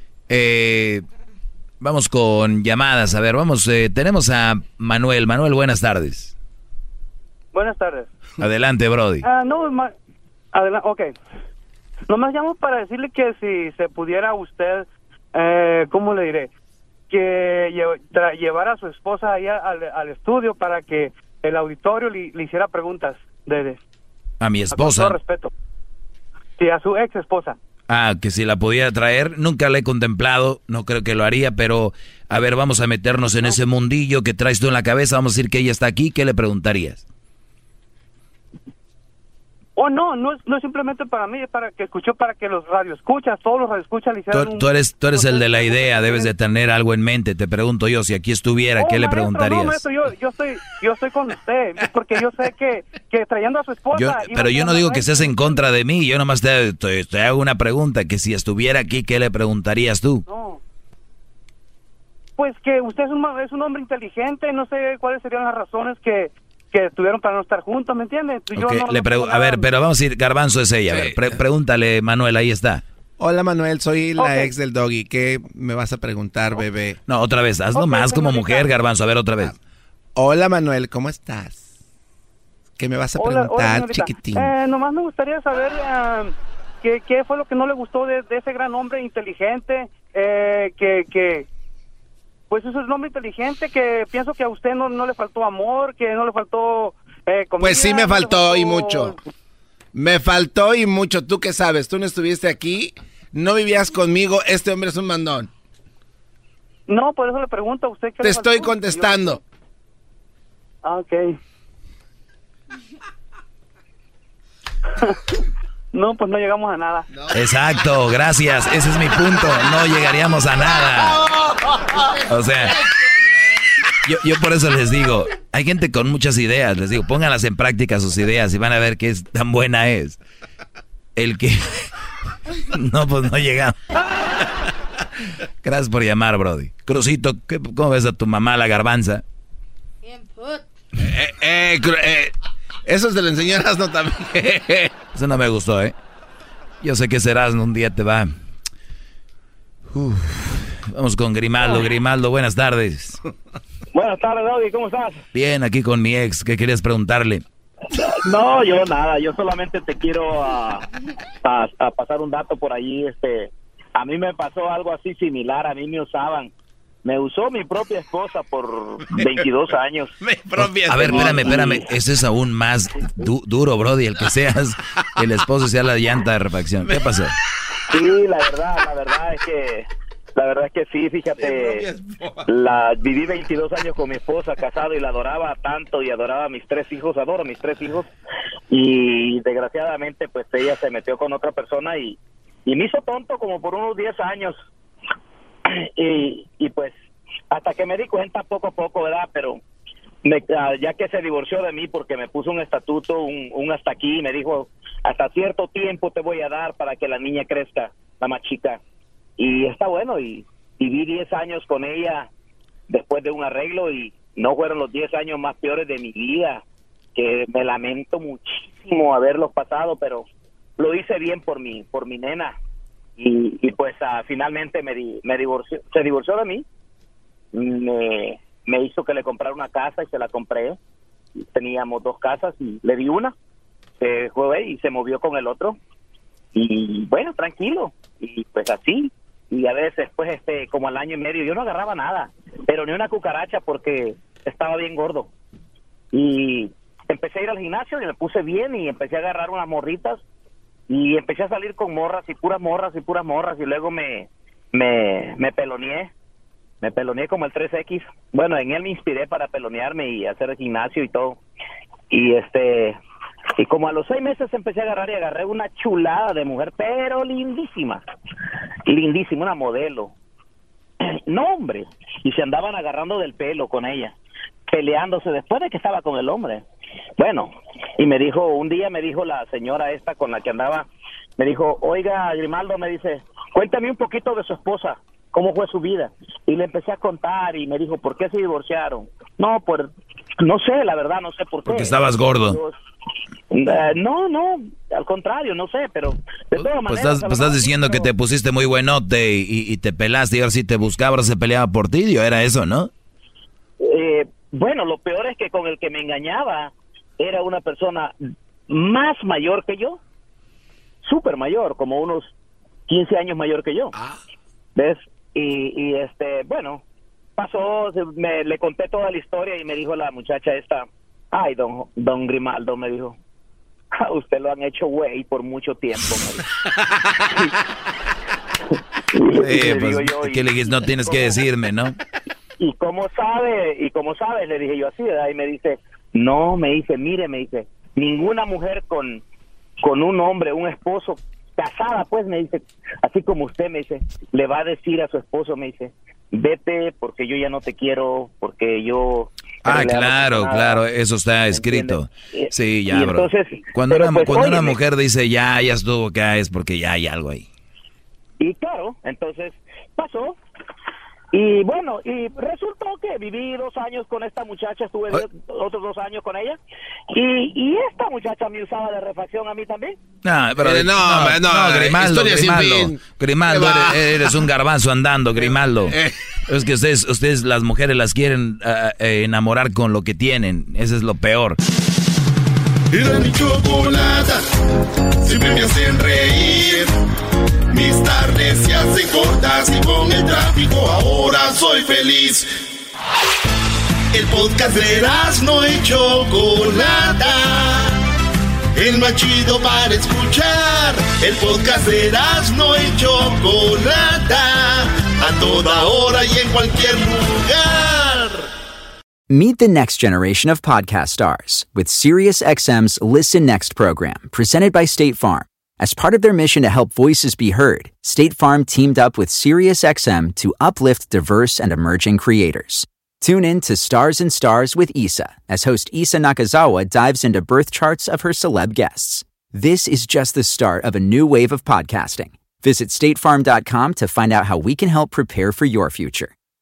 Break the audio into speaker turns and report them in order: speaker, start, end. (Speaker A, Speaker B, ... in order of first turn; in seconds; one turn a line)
Speaker A: 0.3-1.0
Speaker A: 1.8-6.3
Speaker B: 7.5-8.1
Speaker A: 8.4-9.2
Speaker B: 9.2-9.9
Speaker B: 10.5-11.1
Speaker B: 12.1-16.5
Speaker B: 17.1-23.8
Speaker A: 24.4-25.2
Speaker B: 24.7-25.5
Speaker B: 26.6-27.6
Speaker A: 27.9-37.0
Speaker B: 39.8-46.3
Speaker A: 44.3-49.8
Speaker B: 48.8-55.6
Speaker A: 53.9-60.2
Speaker B: 60.3-60.6
Speaker B: 62.4-69.7
Speaker A: 68.5-72.8
Speaker C: 70.9-71.4
Speaker C: 73.2-77.0
Speaker B: 74.2-74.5
Speaker A: 77.1-79.5
Speaker B: 77.7-78.7
Speaker C: 80.1-81.6
Speaker C: 82.8-84.5
Speaker B: 83.2-91.5
Speaker B: 92.5-99.2
Speaker C: 97.6-99.2
Speaker C: 99.9-105.5
Speaker B: 106.9-109.4
Speaker C: 108.2-109.4
Speaker B: 110.8-111.4
Speaker B: 115.9-117.1
Speaker A: 117.3-121.2
Speaker A: 122.3-122.8
Speaker A: 124.0-130.2
Speaker A: 131.2-131.6
Speaker A: 132.7-133.7
Speaker A: 135.6-139.2
Speaker D: 140.2-140.5
Speaker C: 141.0-142.3
Speaker C: 142.8-144.9
Speaker A: 145.1-145.9
Speaker A: 146.8-148.3
Speaker A: 149.9-153.2
Speaker D: 154.0-155.1
Speaker A: 155.3-157.4
Speaker D: 158.3-160.8
Speaker D: 161.5-163.5
Speaker D: 164.1-166.2
Speaker D: 167.3-168.7
Speaker C: 169.1-169.5
Speaker D: 169.2-170.0
Speaker C: 170.2-171.7
Speaker A: 170.6-177.3
Speaker D: 177.9-179.7
Speaker D: 180.5-181.8
Speaker C: 181.3-182.5
Speaker D: 182.7-188.0
Speaker D: 188.8-192.1
Speaker D: 192.8-194.5
Speaker D: 196.0-196.9
Speaker D: 197.6-199.3
Speaker D: 200.8-203.1
Speaker D: 203.6-204.5
Speaker D: 205.2-208.6
Speaker D: 209.6-211.9
Speaker D: 212.9-216.4
Speaker D: 217.2-218.2
Speaker D: 219.0-220.2
Speaker D: 220.8-222.5
Speaker D: 223.3-226.6
Speaker D: 227.9-230.7
Speaker D: 231.6-233.3
Speaker D: 234.1-235.6
Speaker D: 236.7-238.9
Speaker D: 239.6-242.2
Speaker D: 242.7-245.2
Speaker D: 246.2-250.1
Speaker D: 251.0-254.2
Speaker D: 255.0-255.9
Speaker D: 257.0-257.9
Speaker D: 258.6-261.3
Speaker D: 262.1-262.9
Speaker D: 263.6-268.0
Speaker D: 269.0-270.1
Speaker D: 272.3-274.1
Speaker D: 275.0-276.6
Speaker D: 278.1-280.6
Speaker D: 281.4-282.8
Speaker D: 283.7-284.9
Speaker D: 285.5-286.0
Speaker D: 286.8-289.0
Speaker D: 290.5-291.7
Speaker A: 291.7-292.6
Speaker D: 293.8-294.4
Speaker D: 295.1-296.1
Speaker A: 296.6-302.9
Speaker D: 296.6-297.3
Speaker D: 304.1-306.7
Speaker D: 307.3-308.0
Speaker D: 308.9-309.9
Speaker D: 311.3-311.9
Speaker D: 313.0-313.9
Speaker D: 315.5-316.8
Speaker D: 317.5-318.0
Speaker D: 318.8-320.8
Speaker D: 321.5-323.1
Speaker D: 324.3-326.4
Speaker A: 329.3-331.9
Speaker D: 329.6-330.4
Speaker D: 332.6-335.6
Speaker D: 336.3-339.2
Speaker D: 339.9-345.9
Speaker D: 346.4-349.2
Speaker A: 349.6-357.4
Speaker D: 349.8-350.6
Speaker D: 353.0-353.4
Speaker D: 353.9-354.6
Speaker D: 358.4-359.5
Speaker D: 361.4-365.1
Speaker D: 365.6-366.5
Speaker D: 367.2-369.9
Speaker A: 370.2-375.9
Speaker C: 370.6-374.3
Speaker C: 375.4-376.1
Speaker A: 376.5-381.6
Speaker E: 382.9-384.4
Speaker E: 385.2-386.9
Speaker E: 387.7-392.5
Speaker E: 394.1-398.0
Speaker E: 398.7-408.4
Speaker F: 409.3-436.3
Speaker D: 411.6-412.0